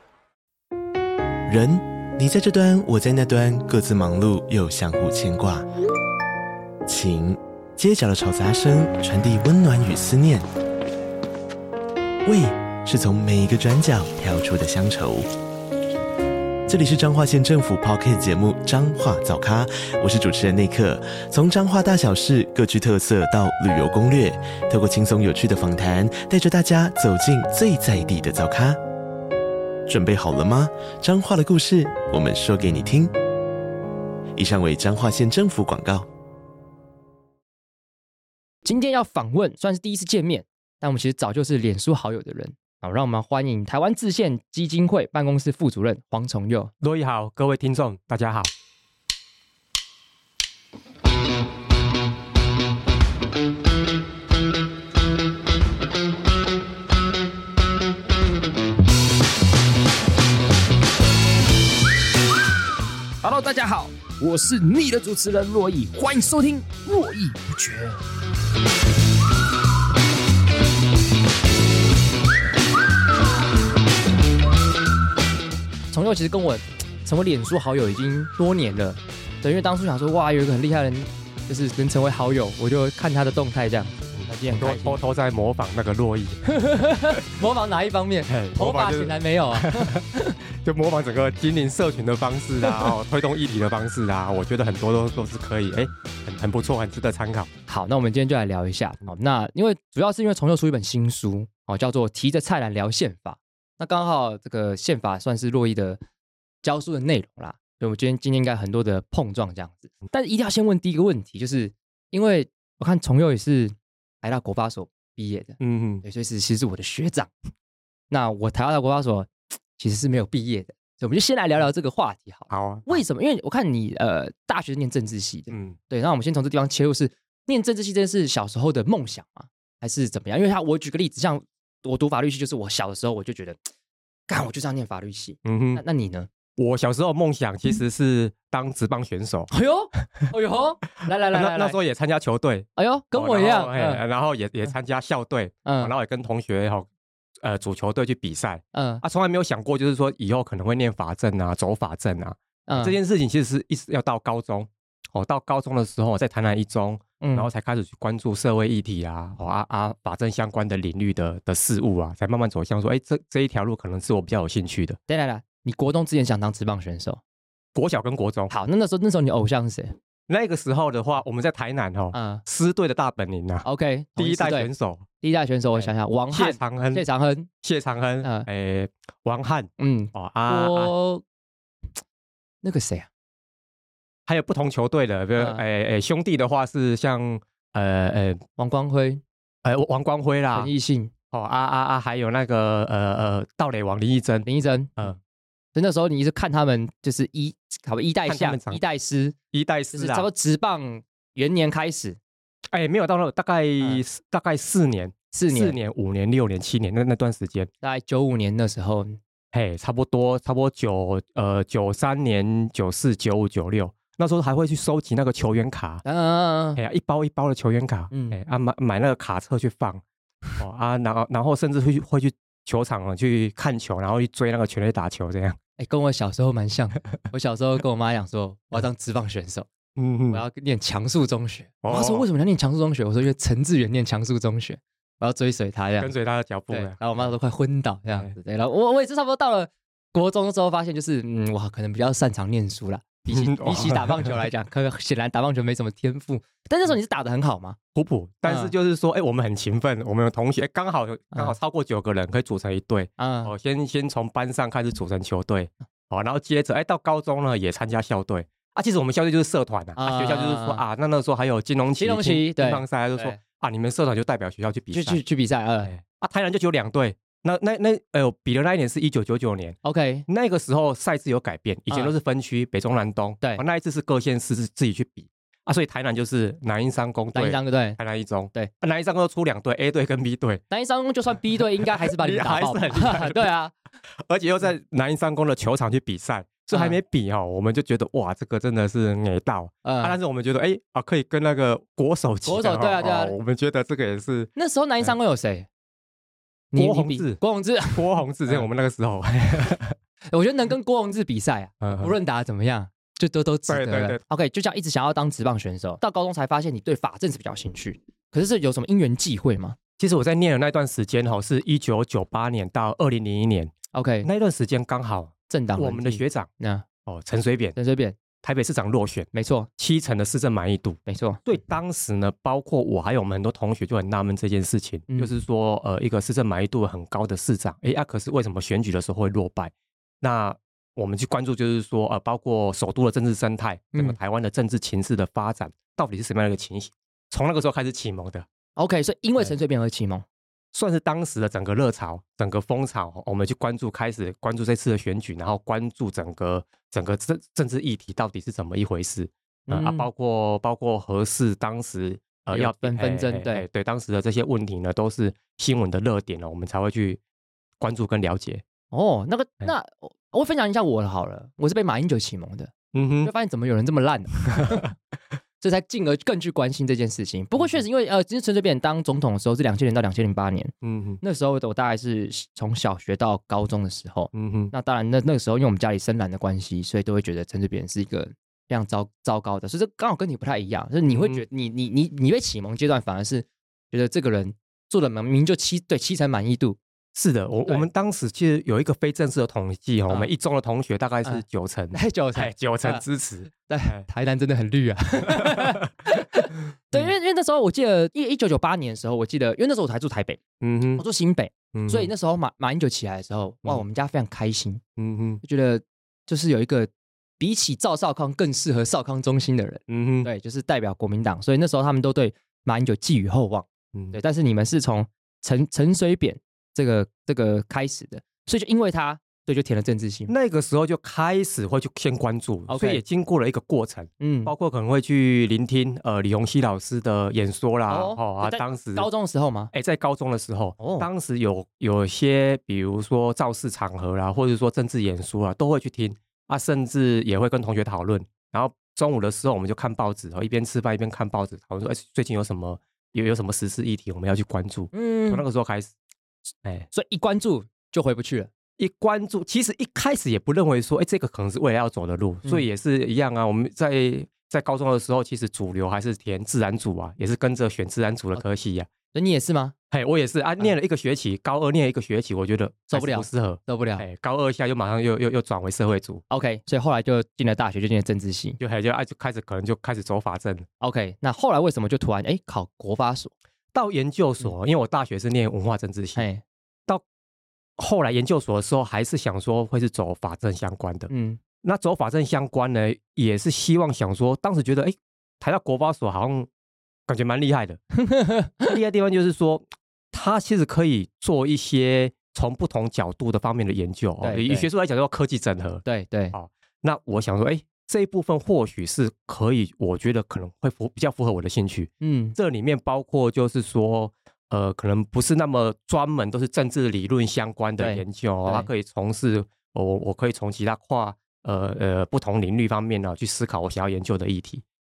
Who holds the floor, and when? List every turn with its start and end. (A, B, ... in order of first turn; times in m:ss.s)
0:01.5-0:05.6 A
0:06.9-0:10.4 A
0:12.2-0:15.3 A
0:16.7-0:28.8 A
0:29.9-0:33.1 A
0:34.4-0:36.1 A
0:38.6-0:46.7 B
0:46.8-0:48.5 C
1:03.2-1:08.0 B
1:15.9-1:25.0 B
1:24.1-1:26.4 C
1:26.4-1:30.4 B
1:28.3-1:37.5 C
1:32.6-1:32.9 B
1:37.7-1:46.0 B
1:46.6-1:57.3 B
1:55.6-1:56.0 C
1:58.1-2:13.7 B
2:02.5-2:03.0 C
2:05.5-2:05.8 C
2:14.3-2:16.3 B
2:15.4-2:15.8 C
2:16.6-2:19.5 C
2:19.5-2:21.8 B
2:21.0-2:26.9 C
2:22.8-2:24.0 B
2:25.6-2:25.9 B
2:27.4-2:45.0 C
2:28.7-2:29.0 B
2:32.7-2:33.0 B
2:37.2-2:37.5 B
2:45.1-2:47.2 B
2:47.7-2:48.5 C
2:48.5-2:49.9 B
2:50.3-2:53.6 C
2:52.1-2:52.4 B
2:53.6-2:54.7 B
2:54.2-2:55.0 C
2:55.2-2:57.5 B
2:55.8-2:57.0 C
2:57.6-3:00.9 C
2:58.2-2:58.5 B
2:59.8-3:01.2 B
3:02.6-3:03.1 B
3:04.3-3:08.4 C
3:05.4-3:05.6 B
3:08.6-3:09.2 B
3:09.6-3:10.7 C
3:10.5-3:11.1 B
3:11.3-3:14.5 C
3:14.4-3:15.2 B
3:15.7-3:19.4 B
3:18.3-3:18.8 C
3:19.5-3:20.3 C
3:19.9-3:22.2 B
3:22.7-3:27.7 C
3:25.3-3:25.8 B
3:27.8-3:29.2 B
3:29.5-3:36.0 C
3:36.0-3:36.8 B
3:36.8-3:40.0 C
3:38.1-3:38.4 B
3:40.6-3:45.6 C
3:45.8-3:49.7 B
3:50.0-3:50.4 C
3:50.3-3:56.1 B
3:51.8-3:52.2 C
3:56.0-3:57.3 C
3:56.7-4:07.8 B
4:03.3-4:04.4 C
4:07.9-4:25.2 C
4:08.4-4:08.7 B
4:13.2-4:13.5 B
4:20.0-4:20.8 B
4:21.9-4:23.4 B
4:24.9-4:25.9 B
4:25.8-4:40.6 C
4:29.8-4:30.2 B
4:37.3-4:38.0 B
4:40.7-4:43.7 B
4:41.9-4:43.5 C
4:44.2-4:54.5 C
4:49.8-4:50.2 B
4:52.4-4:53.3 B
4:54.5-4:55.7 B
4:56.7-4:58.6 B
4:56.8-4:57.4 C
4:57.9-5:00.0 C
5:00.3-5:09.8 B
5:01.8-5:02.1 C
5:03.7-5:04.2 C
5:10.0-5:13.7 C
5:13.9-5:14.3 B
5:14.2-5:16.5 C
5:15.5-5:16.8 B
5:17.0-5:17.8 C
5:17.8-5:18.2 B
5:18.4-5:38.4 C
5:19.3-5:19.7 B
5:21.1-5:21.4 B
5:38.8-5:40.2 B
5:40.7-5:57.2 C
5:49.7-5:50.1 B
5:52.5-5:53.6 B
5:57.8-5:58.6 C
5:58.9-6:04.9 B
6:02.9-6:03.3 C
6:04.4-6:04.8 C
6:05.6-6:26.8 B
6:10.8-6:11.2 C
6:14.3-6:14.7 C
6:21.1-6:21.4 C
6:27.1-6:34.0 C
6:31.9-6:33.0 B
6:33.6-6:40.4 B
6:35.3-6:35.9 C
6:40.6-6:41.0 C
6:41.0-6:44.8 B
6:41.7-6:42.1 C
6:45.0-6:45.4 C
6:45.4-7:00.3 B
6:49.9-6:50.3 C
7:00.3-7:09.1 C
7:02.7-7:03.0 B
7:04.2-7:04.5 B
7:07.9-7:09.7 B
7:09.7-7:25.9 C
7:10.8-7:11.1 B
7:24.9-7:25.4 B
7:26.9-7:28.5 B
7:28.8-7:38.9 C
7:39.1-7:39.7 B
7:39.9-7:46.2 C
7:42.9-7:44.0 B
7:46.3-7:48.6 B
7:48.6-7:50.6 C
7:50.8-7:53.3 B
7:53.7-7:56.2 C
7:56.2-7:56.4 B
7:57.8-8:01.1 C
8:01.1-8:01.4 B
8:01.6-8:06.5 C
8:07.1-8:07.8 C
8:08.0-8:08.7 B
8:08.6-8:34.6 C
8:14.2-8:14.7 B
8:15.8-8:16.3 B
8:22.0-8:22.4 B
8:27.8-8:28.7 B